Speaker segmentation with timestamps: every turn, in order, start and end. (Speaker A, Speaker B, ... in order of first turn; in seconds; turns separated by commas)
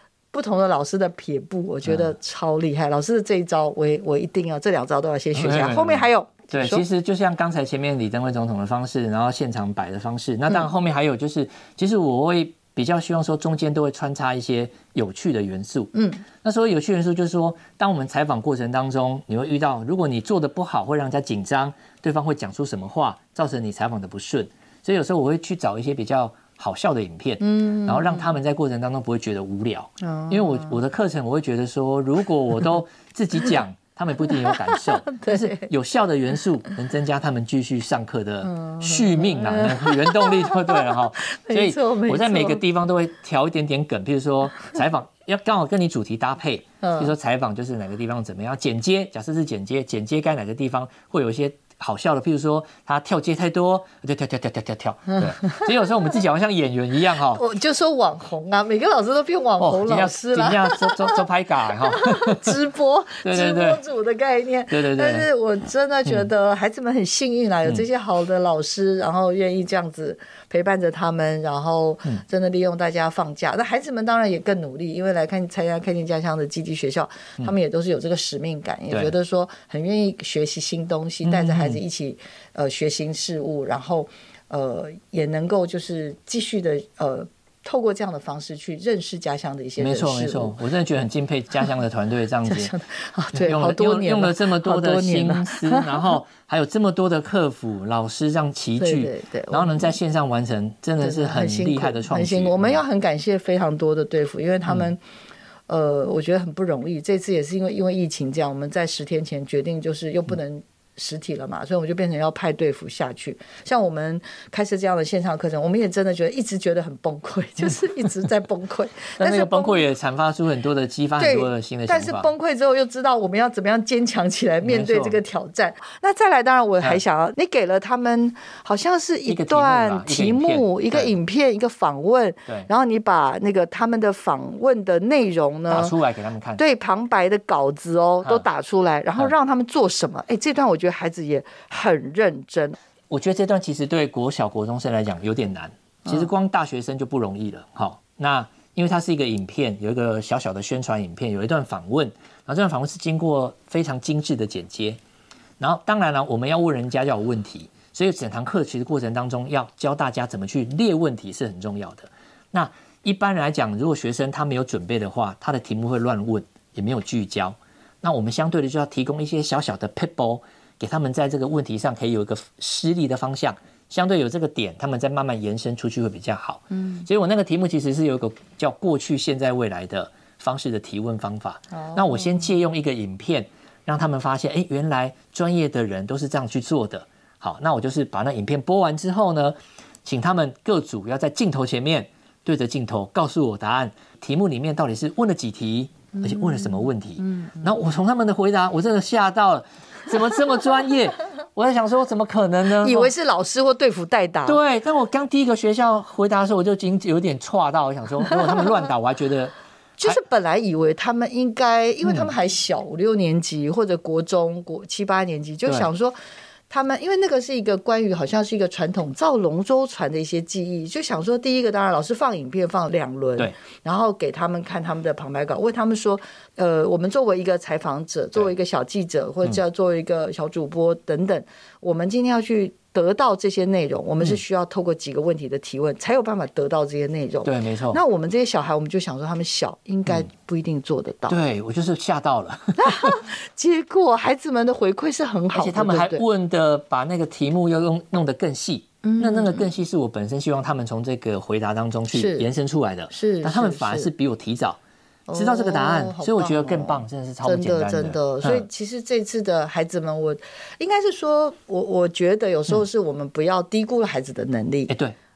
Speaker A: 0.3-6.8, Speaker B: 1.8-2.1, Speaker B: 5.3-57.4, Speaker A: 27.4-28.2, Speaker A: 30.0-30.7, Speaker A: 35.1-35.7, Speaker A: 38.5-40.8, Speaker A: 41.4-42.6, Speaker A: 46.8-47.1, Speaker A: 57.3-61.1, Speaker B: 59.6-62.5, Speaker A: 61.9-90.6, Speaker B: 63.2-63.8, Speaker B: 64.7-65.3, Speaker B: 81.2-81.8, Speaker B: 89.8-92.7, Speaker A: 92.5-96.0, Speaker B: 93.3-102.8, Speaker A: 98.8-99.9, Speaker A: 101.0-105.0, Speaker A: 105.7-119.8, Speaker B: 119.2-122.3, Speaker A: 121.2-135.9, Speaker B: 124.6-125.2, Speaker B: 129.3-131.2, Speaker B: 135.7-136.6, Speaker A: 136.6-142.8, Speaker B: 143.1-155.0, Speaker B: 155.6-203.1, Speaker A: 181.8-182.5, Speaker A: 196.3-196.9, Speaker A: 202.8-204.6, Speaker B: 204.5-210.2, Speaker A: 210.0-216.2, Speaker B: 212.1-212.3, Speaker A: 216.7-241.4, Speaker B: 237.4-238.0, Speaker B: 241.3-243.2, Speaker A: 242.8-246.2, Speaker B: 245.5-254.8, Speaker A: 249.0-249.7, Speaker A: 252.1-252.5, Speaker A: 253.1-254.1, Speaker A: 255.3-264.9, Speaker B: 255.3-258.7, Speaker B: 264.9-265.2